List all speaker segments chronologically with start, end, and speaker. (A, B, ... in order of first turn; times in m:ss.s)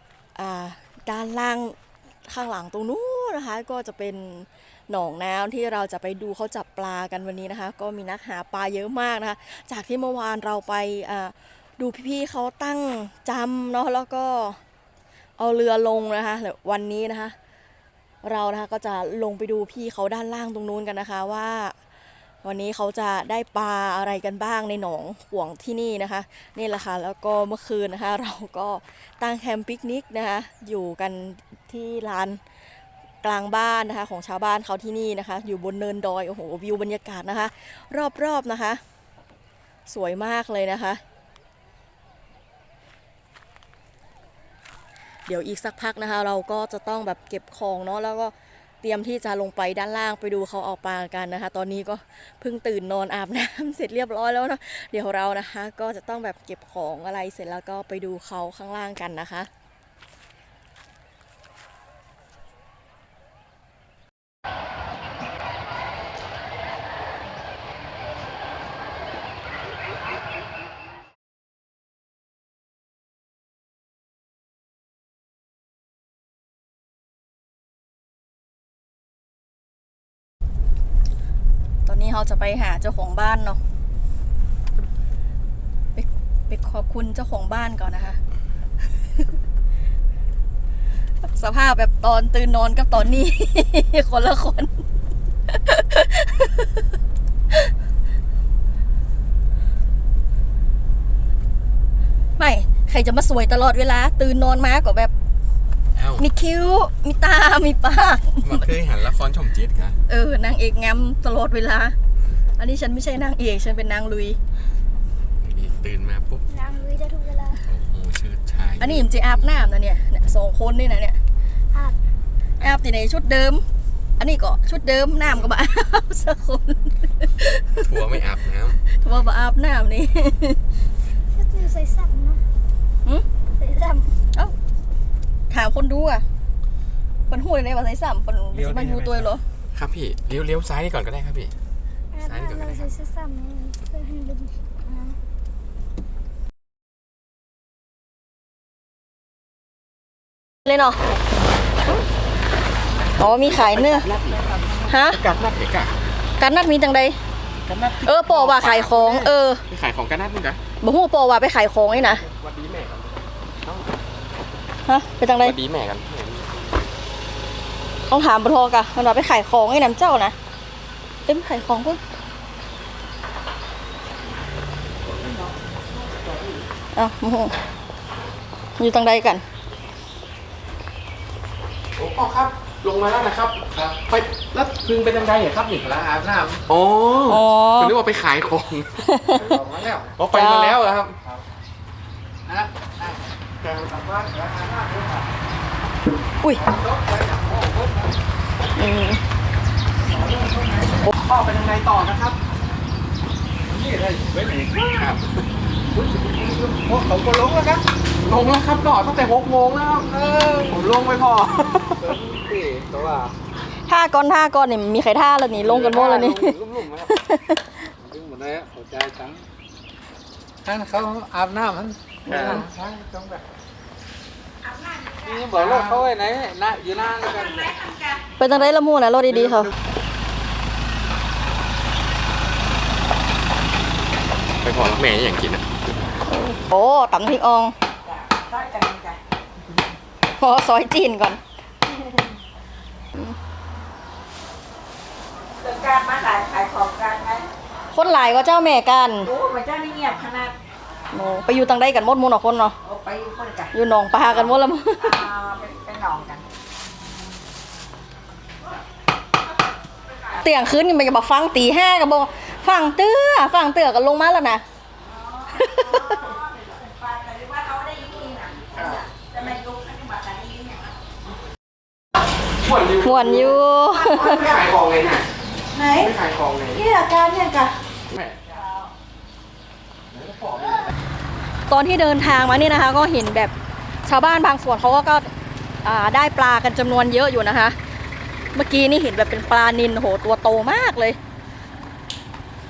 0:00.4-0:01.8 A
0:02.3-0:14.6 A
0:15.4-0:17.4 A
0:18.2-0:21.8 A
0:22.4-0:32.4 A
0:33.2-0:38.8 A
0:39.9-0:41.0 A
0:45.3-0:48.3 A
0:48.8-0:59.5 A
1:21.9-1:23.6 A
1:26.0-1:28.2 A
1:31.3-1:34.7 A
1:35.5-1:36.8 A
1:42.4-1:45.1 A
1:46.0-1:46.2 B
1:46.2-1:48.6 A
1:48.4-1:50.0 B
1:50.1-1:52.0 A
1:52.6-1:54.4 A
1:55.4-1:56.4 B
1:56.5-1:57.6 C
1:57.6-1:59.6 B
1:58.8-2:01.2 A
2:02.6-2:03.6 A
2:04.2-2:07.9 A
2:07.8-2:08.8 B
2:09.0-2:10.6 A
2:11.3-2:12.4 C
2:13.6-2:14.1 C
2:15.5-2:16.2 A
2:17.3-2:19.4 A
2:18.6-2:19.2 D
2:19.7-2:21.5 B
2:22.1-2:25.2 C
2:22.2-2:22.9 B
2:30.7-2:31.0 A
2:33.2-2:34.1 A
2:34.9-2:35.2 A
2:35.1-2:35.9 B
2:36.4-2:37.2 A
2:38.0-2:39.6 A
2:39.7-2:40.6 B
2:40.8-2:42.2 A
2:42.0-2:43.9 B
2:44.9-2:45.6 A
2:45.4-2:46.7 B
2:48.1-2:50.4 A
2:51.3-2:52.0 A
2:57.0-2:57.6 A
2:58.8-2:59.4 A
3:02.0-3:09.0 B
3:07.3-3:08.0 A
3:09.0-3:09.6 A
3:09.4-3:10.2 D
3:10.1-3:11.2 B
3:10.3-3:10.8 A
3:12.5-3:13.2 D
3:13.6-3:13.9 B
3:13.9-3:15.3 D
3:16.6-3:18.2 D
3:18.8-3:19.2 A
3:20.1-3:22.3 D
3:21.9-3:22.3 B
3:23.6-3:25.1 D
3:25.0-3:25.2 B
3:26.0-3:27.8 D
3:28.3-3:31.9 B
3:32.0-3:33.3 D
3:33.9-3:37.6 A
3:35.6-3:36.8 D
3:35.9-3:36.9 B
3:38.0-3:39.4 D
3:40.6-3:43.4 D
3:42.3-3:42.6 A
3:45.2-3:47.9 D
3:48.4-3:49.7 A
3:54.6-3:55.7 B
3:56.5-3:57.7 A
3:58.6-3:59.1 E
4:00.4-4:01.4 A
4:05.6-4:07.4 E
4:07.9-4:09.3 A
4:09.3-4:10.5 E
4:11.1-4:12.8 A
4:12.9-4:13.7 E
4:13.7-4:15.2 A
4:15.0-4:16.4 E
4:20.4-4:24.6 A
4:25.5-4:26.2 A
4:27.0-4:28.6 E
4:28.8-4:29.0 B
4:29.4-4:30.3 E
4:32.6-4:35.3 B
4:33.0-4:34.5 A
4:35.8-4:36.1 A
4:35.9-4:36.9 B
4:36.8-4:37.8 A
4:38.1-4:38.4 B
4:40.1-4:40.9 B
4:41.7-4:43.5 A
4:44.1-4:45.3 A
4:45.8-4:47.8 A
4:48.6-4:51.2 A